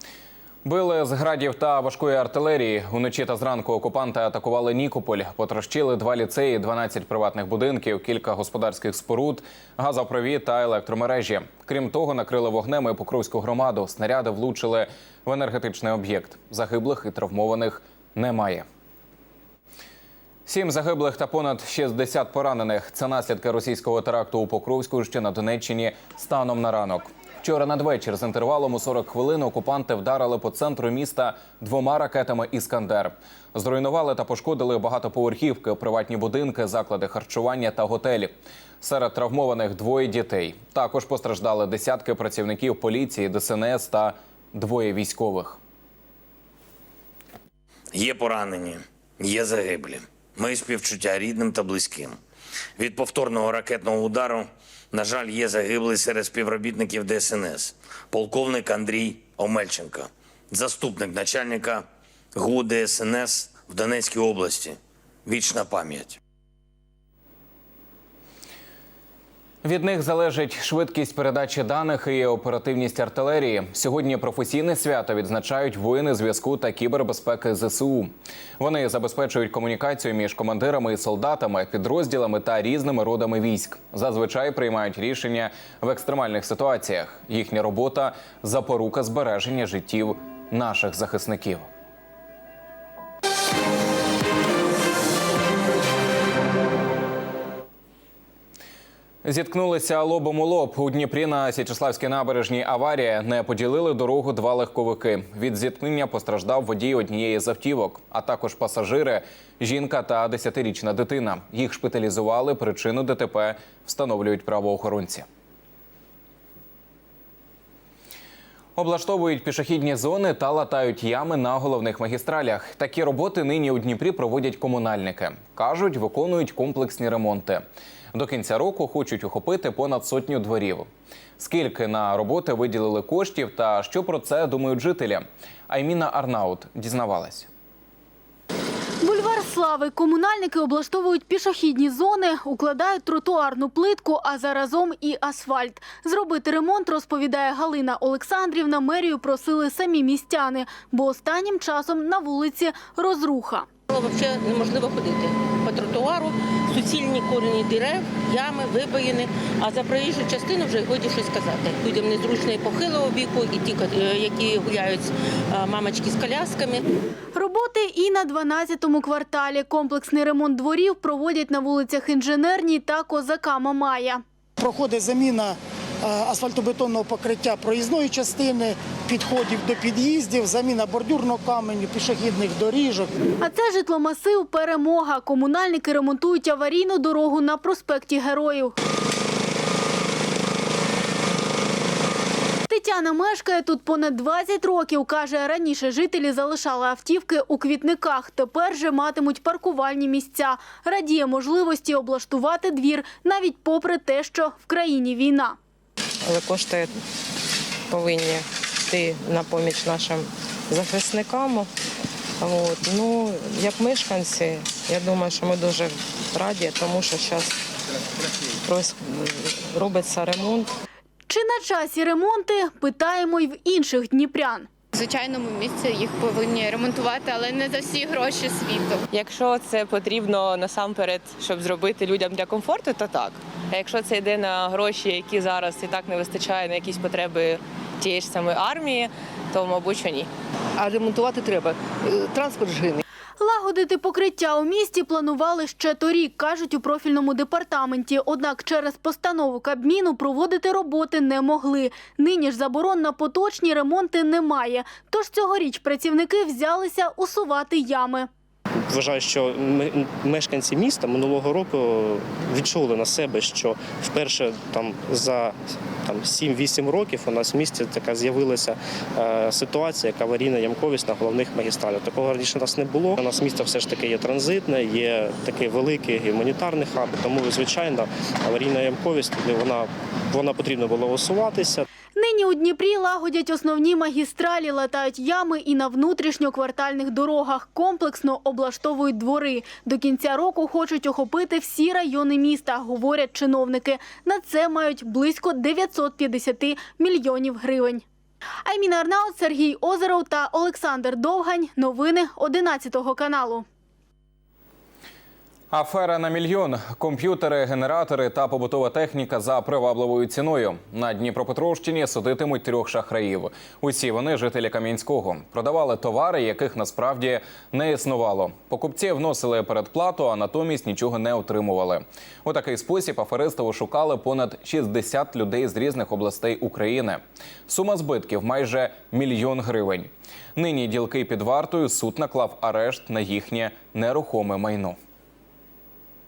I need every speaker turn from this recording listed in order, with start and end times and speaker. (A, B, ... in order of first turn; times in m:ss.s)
0:00.6-0:18.6 A
0:20.5-0:45.6 A
0:47.9-0:52.2 B
0:52.8-1:06.2 B
1:09.6-1:31.7 A
1:39.2-1:55.2 A
1:58.8-2:17.5 A
2:19.0-2:33.7 C
2:33.9-2:46.8 D
2:47.3-2:54.2 C
2:54.6-3:03.2 E
3:03.4-3:08.8 C
3:12.7-3:25.6 C
3:26.2-3:26.9 F
3:27.9-3:31.7 F
3:32.4-3:37.5 F
3:38.6-3:40.7 F
3:41.3-3:44.7 C
3:44.9-3:49.0 G
3:49.1-4:00.3 H
4:00.8-4:03.0 I
4:01.0-4:02.0 H
4:03.4-4:18.3 C
4:18.9-4:41.9 J
4:42.2-4:58.0 C
4:58.6-5:03.6 C
5:05.7-5:35.0 A